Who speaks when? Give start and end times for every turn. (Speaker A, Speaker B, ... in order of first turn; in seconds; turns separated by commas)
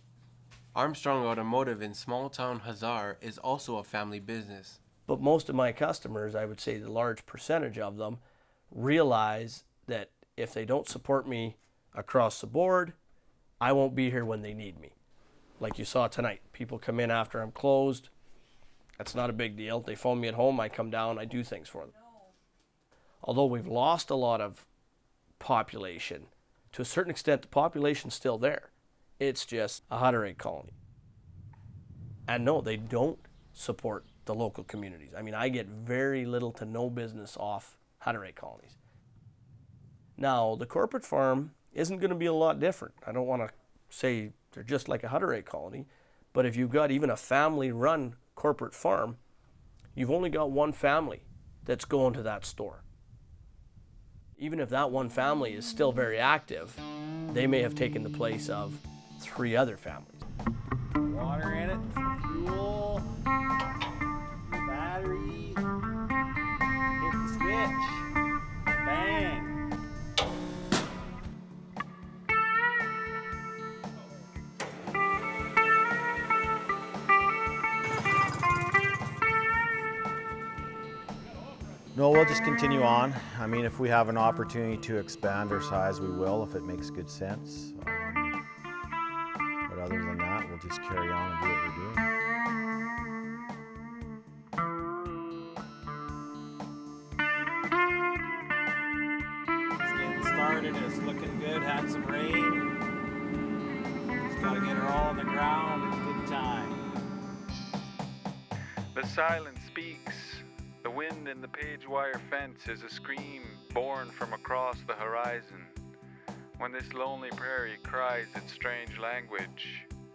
Speaker A: 0.8-4.8, Speaker B: 5.1-13.0, Speaker B: 13.6-14.9, Speaker B: 15.6-18.1, Speaker B: 19.0-22.1, Speaker B: 23.2-24.7, Speaker B: 25.4-30.8, Speaker B: 32.3-38.8, Speaker B: 40.2-49.2, Speaker B: 50.0-52.8, Speaker B: 54.4-60.2, Speaker C: 61.0-63.0, Speaker C: 64.5-65.6, Speaker C: 67.0-68.0, Speaker C: 68.8-69.6, Speaker D: 82.0-88.4, Speaker D: 89.7-92.1, Speaker C: 99.8-102.7, Speaker C: 104.2-106.8, Speaker E: 108.9-115.8, Speaker E: 116.6-119.9